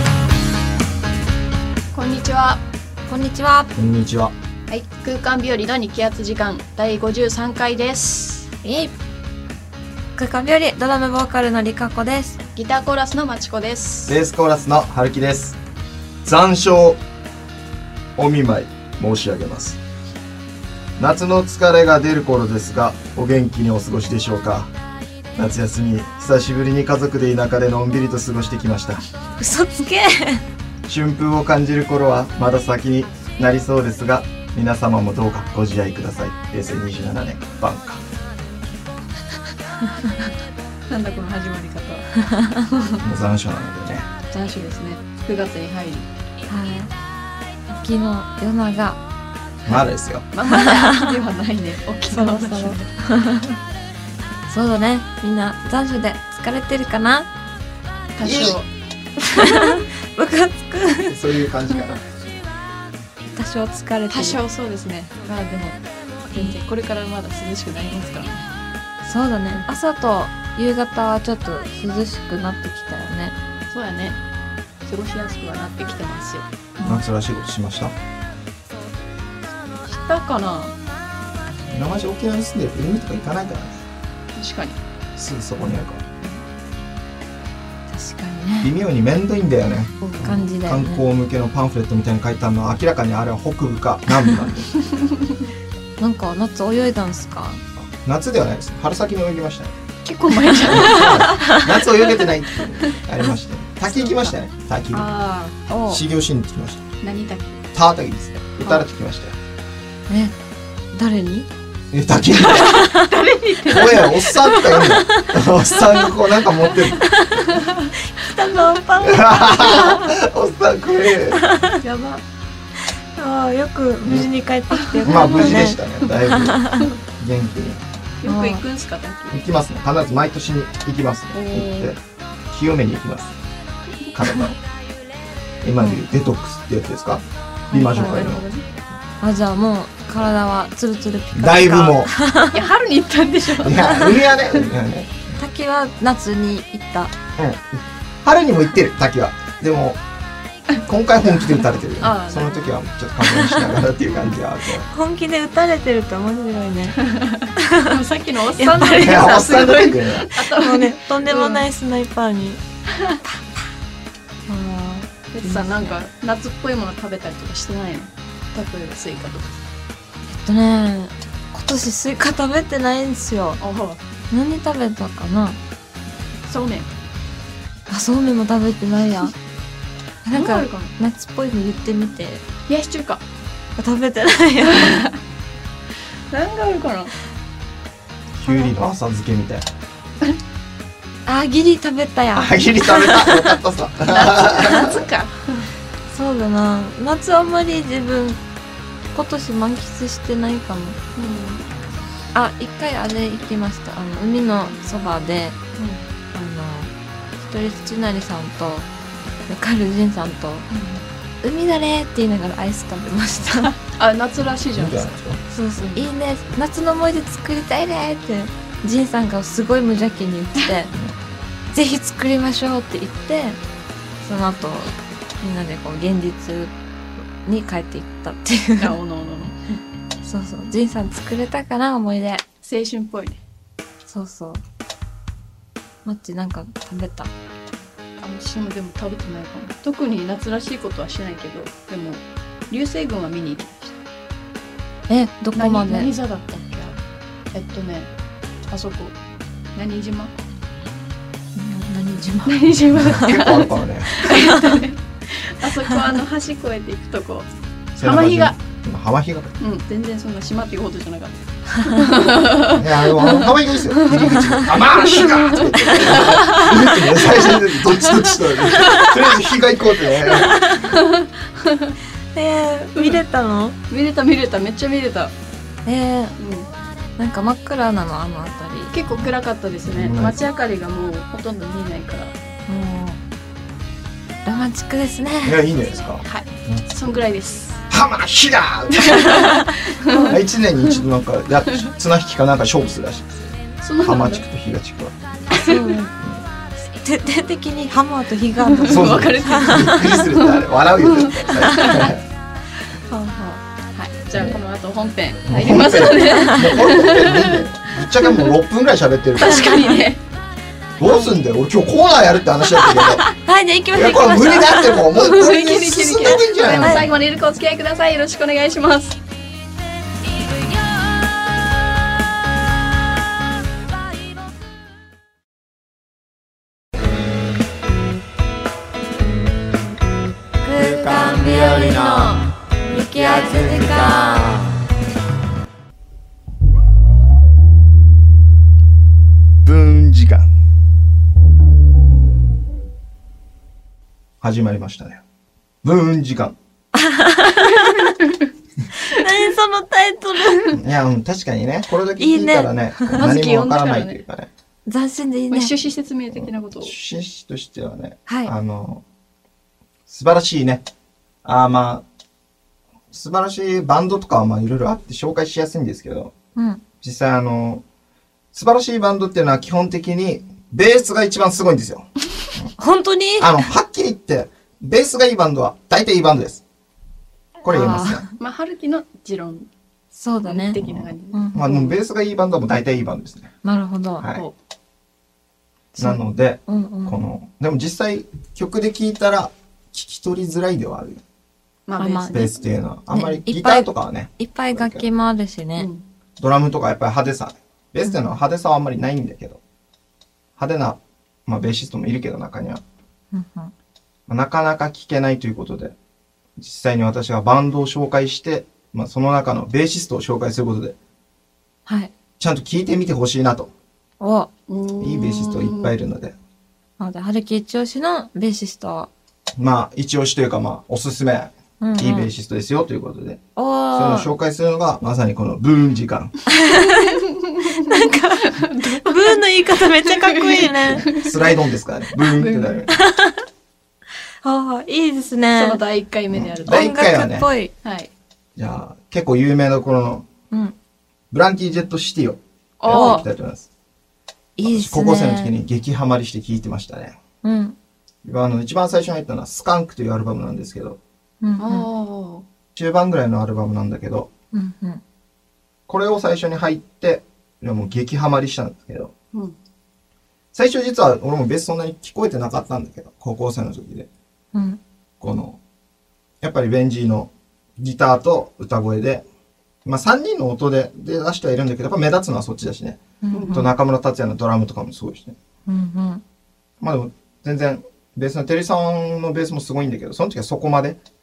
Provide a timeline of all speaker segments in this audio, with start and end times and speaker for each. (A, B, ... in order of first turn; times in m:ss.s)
0:01.9-0:02.6 A
0:03.1-0:03.7 B
0:03.8-0:04.3 C
0:04.7-0:08.5 A
0:08.6-0:08.9 B
0:10.2-0:12.4 B
0:12.6-0:14.2 A
0:14.1-0:15.6 C
0:16.2-0:17.0 C
0:18.2-0:19.8 C
0:21.0-0:24.7 C
0:25.3-0:29.0 C
0:29.4-0:30.4 B
0:30.9-0:38.0 C
0:40.9-0:43.0 A
0:43.0-0:44.1 C
0:44.3-0:46.1 A
0:46.5-0:46.9 B
0:47.7-0:49.0 B
0:49.6-0:50.3 C
0:50.3-0:52.9 A
0:50.5-0:51.1 B
0:52.1-0:53.6 B
0:54.5-0:57.3 B
0:58.2-0:58.7 A
0:58.2-0:58.6 C
0:59.2-1:01.2 B
1:01.1-1:02.0 C
1:03.3-1:04.4 B
1:04.1-1:05.8 A
1:06.3-1:08.4 A
1:09.0-1:13.3 B
1:13.7-1:14.2 A
1:14.8-1:17.0 A
1:16.8-1:17.9 C
1:19.8-1:20.7 A
1:21.7-1:23.8 C
1:24.4-1:24.8 A
1:25.2-1:26.0 C
1:27.9-1:28.7 B
1:28.6-1:34.7 C
1:30.1-1:31.0 B
1:36.0-1:37.6 B
1:37.9-1:39.7 C
1:40.0-1:42.3 A
1:40.6-1:45.1 C
1:44.9-1:45.6 A
1:45.6-1:46.0 B
1:45.9-1:46.8 C
1:47.0-1:47.6 A
1:47.7-1:49.4 C
1:50.1-1:50.3 B
1:50.9-1:51.5 B
1:51.9-1:52.9 C
1:52.4-1:55.0 A
1:52.7-1:53.1 B
1:53.6-1:57.1 C
1:54.8-1:55.3 B
1:56.8-1:57.9 A
1:57.2-2:00.0 B
1:59.0-2:01.4 C
2:01.3-2:01.8 B
2:01.8-2:02.2 A
2:03.2-2:06.9 B
2:04.8-2:05.6 A
2:05.0-2:07.8 C
2:08.2-2:09.4 A
2:08.2-2:08.6 B
2:09.3-2:12.0 C
2:11.3-2:11.9 A
2:12.5-2:13.3 C
2:14.1-2:14.4 A
2:14.1-2:14.6 C
2:15.6-2:18.4 C
2:17.7-2:18.6 A
2:17.7-2:18.2 B
2:19.2-2:22.6 B
2:21.3-2:22.1 C
2:22.5-2:23.9 A
2:23.5-2:25.4 C
2:23.8-2:24.1 B
2:25.4-2:27.1 B
2:27.4-2:30.0 C
2:30.8-2:34.8 C
2:32.0-2:32.8 A
2:33.3-2:33.6 B
2:34.8-2:37.0 B
2:37.0-2:41.6 A
2:37.6-2:38.0 B
2:38.6-2:39.4 B
2:39.0-2:40.3 C
2:40.3-2:42.6 B
2:42.9-2:43.2 A
2:44.5-2:45.9 B
2:45.3-2:49.6 A
2:50.3-2:53.6 B
2:53.6-2:54.0 A
2:54.3-2:55.6 B
2:56.5-2:56.9 A
2:57.9-2:59.3 B
3:00.2-3:02.4 B
3:00.3-3:01.0 A
3:02.7-3:03.2 A
3:03.8-3:05.0 B
3:04.7-3:05.2 A
3:06.3-3:07.1 A
3:08.4-3:09.6 C
3:11.2-3:13.6 B
3:12.3-3:15.0 C
3:14.1-3:15.7 A
3:16.1-3:18.4 B
3:19.1-3:21.0 B
3:21.2-3:21.6 A
3:22.3-3:25.6 B
3:25.8-3:26.0 A
3:26.3-3:28.9 B
3:29.5-3:30.7 B
3:30.7-3:31.0 A
3:31.4-3:33.7 B
3:34.0-3:35.2 A
3:34.7-3:35.4 C
3:35.5-3:40.9 B
3:35.8-3:36.1 A
3:41.7-3:43.6 B
3:44.2-3:46.7 B
3:47.4-3:48.9 B
3:48.8-3:49.8 A
3:50.2-3:52.4 B
3:52.6-3:53.4 A
3:54.1-3:54.6 B
3:56.0-3:57.3 B
3:58.2-4:04.0 A
4:05.1-4:06.1 B
4:05.5-4:07.0 A
4:07.5-4:08.1 A
4:08.7-4:09.2 A
4:09.7-4:10.4 A
4:11.6-4:13.3 B
4:12.4-4:17.5 A
4:12.9-4:14.2 C
4:14.2-4:14.8 B
4:18.0-4:19.5 C
4:18.0-4:18.5 A
4:19.6-4:29.5 A
4:22.7-4:30.5 C
4:30.2-4:32.0 A
4:30.3-4:30.9 B
4:32.3-4:33.8 B
4:33.9-4:35.3 A
4:35.8-4:36.4 B
4:36.4-4:36.7 A
4:37.2-4:38.9 B
4:38.9-4:42.3 A
4:39.8-4:40.4 C
4:42.7-4:43.2 B
4:44.4-4:45.6 B
4:45.4-4:46.8 C
4:46.1-4:47.8 A
4:47.9-4:49.4 C
4:48.9-4:50.3 A
4:49.4-4:50.4 B
4:50.2-4:55.2 C
4:53.8-4:54.4 A
4:55.5-4:55.9 A
4:55.5-4:56.1 B
4:57.0-5:00.2 B
4:58.6-5:02.1 A
4:58.9-5:02.2 C
5:01.6-5:02.0 B
5:03.1-5:03.6 B
5:03.9-5:07.6 A
5:04.3-5:04.6 C
5:05.4-5:09.8 C
5:08.2-5:08.5 A
5:09.4-5:10.2 A
5:09.5-5:10.0 B
5:11.0-5:13.3 C
5:12.9-5:13.2 A
5:13.3-5:15.0 B
5:13.9-5:17.1 C
5:15.1-5:19.2 A
5:16.8-5:17.1 B
5:30.6-5:34.6 B
5:30.8-5:34.7 C
5:39.6-5:40.5 C
5:44.4-5:45.2 C
5:45.8-5:46.6 C
5:46.9-5:48.2 B
5:48.9-5:50.8 B
5:50.7-5:54.5 C
5:52.2-5:53.3 B
5:53.2-5:54.2 A
5:54.9-5:55.8 B
5:55.5-5:56.9 A
5:56.3-5:59.0 C
5:58.3-5:58.5 B
6:00.1-6:00.8 C
6:01.4-6:02.0 C
6:03.1-6:06.3 C
6:06.6-6:06.8 B
6:07.0-6:07.8 C
6:08.5-6:12.7 C
6:12.8-6:13.6 B
6:13.4-6:16.6 C
6:17.6-6:18.2 C
6:17.6-6:18.3 B
6:18.4-6:19.7 A
6:20.1-6:21.7 B
6:20.4-6:22.0 A
6:20.9-6:23.5 C
6:23.6-6:24.2 B
6:25.9-6:27.2 B
6:26.0-6:31.2 C
6:31.9-6:32.6 A
6:32.0-6:32.4 B
6:32.3-6:35.0 C
6:33.1-6:35.9 B
6:35.8-6:36.0 A
6:36.4-6:39.6 C
6:40.6-6:42.8 C
6:43.3-6:43.7 B
6:44.3-6:45.9 C
6:46.6-6:51.0 C
6:51.8-6:52.1 B
6:52.4-6:53.7 C
6:54.2-6:54.5 B
6:54.7-6:55.9 A
6:55.0-6:56.3 C
6:57.0-6:59.1 B
6:59.6-7:03.4 C
7:01.8-7:02.3 B
7:03.6-7:04.3 B
7:03.9-7:06.3 C
7:06.5-7:11.1 B
7:07.1-7:09.4 A
7:10.0-7:11.4 A
7:11.0-7:13.0 C
7:12.2-7:12.8 A
7:12.9-7:13.4 B
7:14.4-7:15.8 B
7:15.5-7:17.0 A
7:16.3-7:17.5 C
7:16.6-7:17.7 B
7:17.8-7:18.1 A
7:18.6-7:20.3 C
7:21.3-7:23.7 C
7:22.8-7:23.2 A
7:22.9-7:23.2 B
7:24.6-7:25.6 B
7:24.6-7:27.2 C
7:27.4-7:27.8 B
7:28.2-7:31.0 C
7:31.4-7:31.9 B
7:31.6-7:32.4 A
7:32.8-7:34.3 C
7:34.5-7:35.0 B
7:35.9-7:39.1 C
7:40.5-7:44.1 C
7:44.5-7:44.8 B
7:45.2-7:45.6 C
7:46.4-7:49.2 C
7:49.8-7:55.4 C
7:53.2-7:53.7 B
7:53.3-7:53.6 A
7:55.7-7:56.2 B
7:56.8-8:01.0 C